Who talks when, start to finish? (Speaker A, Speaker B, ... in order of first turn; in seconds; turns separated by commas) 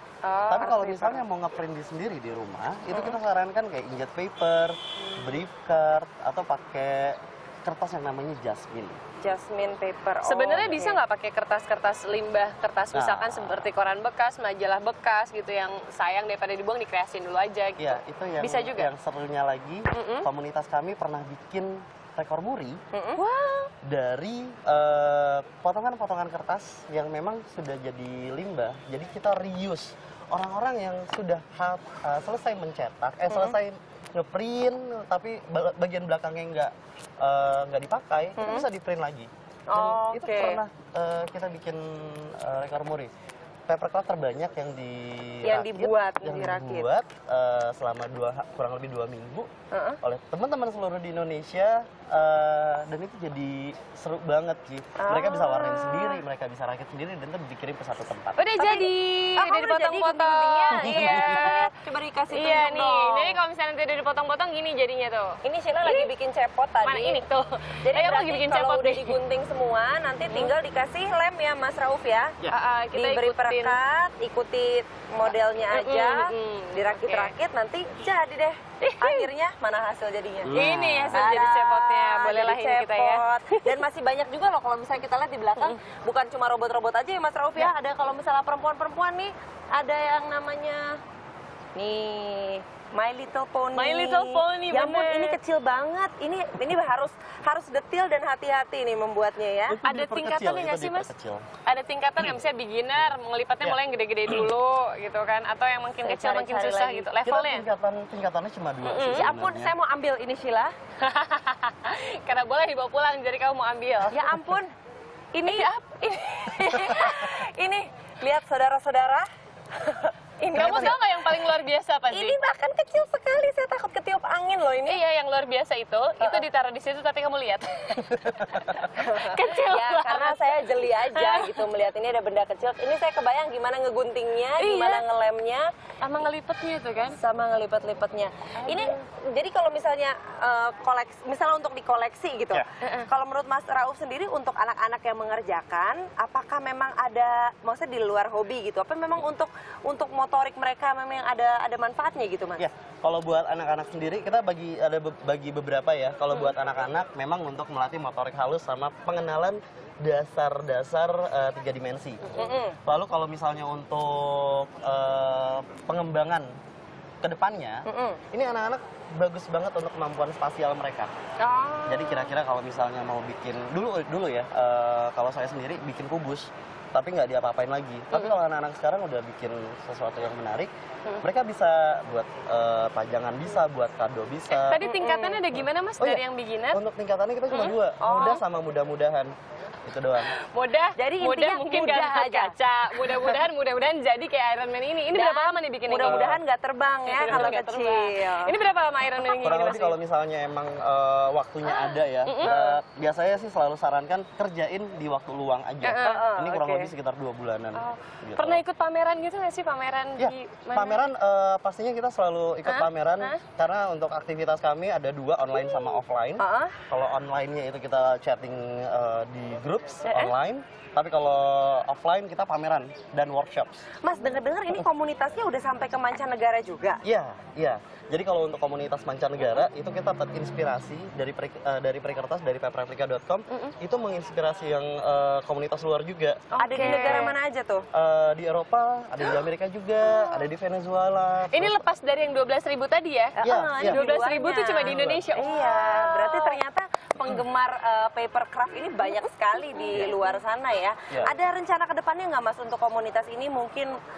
Speaker A: 0.2-1.2, Speaker B: 0.5-9.0, Speaker C: 9.2-11.0, Speaker A: 10.2-18.9, Speaker B: 12.9-13.7, Speaker B: 17.8-22.8, Speaker A: 19.9-20.3, Speaker C: 22.9-23.2, Speaker A: 23.2-23.7, Speaker B: 23.8-43.1, Speaker C: 33.3-33.6, Speaker C: 38.4-38.7, Speaker C: 39.7-40.6, Speaker B: 43.7-49.5, Speaker C: 45.4-46.9, Speaker C: 49.7-50.0, Speaker B: 50.0-58.5, Speaker C: 55.0-56.1, Speaker A: 58.4-61.7, Speaker C: 58.6-63.4, Speaker B: 60.8-61.4, Speaker A: 62.3-66.1, Speaker C: 65.4-67.2, Speaker A: 66.8-69.2, Speaker C: 67.8-72.4, Speaker A: 72.5-73.8, Speaker C: 72.9-80.6, Speaker A: 75.7-77.3, Speaker A: 78.8-79.3, Speaker B: 80.5-81.2, Speaker A: 80.5-83.7, Speaker C: 81.1-91.0, Speaker C: 91.8-99.8, Speaker A: 93.7-95.4, Speaker B: 99.7-101.5, Speaker A: 99.8-101.1, Speaker A: 101.7-107.7, Speaker B: 103.6-104.5, Speaker C: 106.0-107.1, Speaker B: 107.2-109.8, Speaker A: 108.8-109.3, Speaker C: 109.1-110.7, Speaker A: 111.0-114.4, Speaker C: 114.1-114.7, Speaker C: 115.3-121.3, Speaker A: 115.5-117.2, Speaker A: 120.4-122.4, Speaker B: 120.5-121.0, Speaker C: 122.1-125.0, Speaker A: 124.9-131.7, Speaker B: 128.2-128.7, Speaker C: 128.8-135.7, Speaker A: 134.6-135.0, Speaker A: 136.0-137.2, Speaker C: 137.1-152.7, Speaker A: 138.6-139.0, Speaker A: 142.8-143.1, Speaker B: 152.6-166.5, Speaker C: 162.3-162.8, Speaker B: 167.2-171.1, Speaker C: 167.9-168.2, Speaker A: 171.5-172.3, Speaker B: 171.8-180.7, Speaker B: 181.2-184.8, Speaker A: 184.5-186.8, Speaker C: 184.8-185.5, Speaker B: 186.0-189.3, Speaker A: 187.5-188.4, Speaker C: 188.0-188.4, Speaker B: 189.8-190.4, Speaker A: 190.3-196.4, Speaker C: 191.0-193.4, Speaker C: 195.1-198.6, Speaker B: 196.0-196.4, Speaker A: 197.1-200.0, Speaker B: 197.3-197.6, Speaker B: 199.2-208.6, Speaker A: 201.7-202.8, Speaker C: 202.4-202.7, Speaker A: 205.8-206.3, Speaker C: 206.0-206.9, Speaker A: 207.8-211.1, Speaker B: 210.2-223.8, Speaker A: 212.7-213.4, Speaker C: 216.4-216.8, Speaker A: 220.1-220.3, Speaker C: 224.0-227.0, Speaker B: 227.0-237.3, Speaker A: 233.5-233.8, Speaker A: 236.5-237.3, Speaker C: 236.6-237.9, Speaker B: 237.9-241.8, Speaker A: 240.1-240.5, Speaker A: 241.5-246.6, Speaker B: 243.4-244.2, Speaker C: 243.4-253.9, Speaker B: 244.8-245.3, Speaker A: 249.7-250.4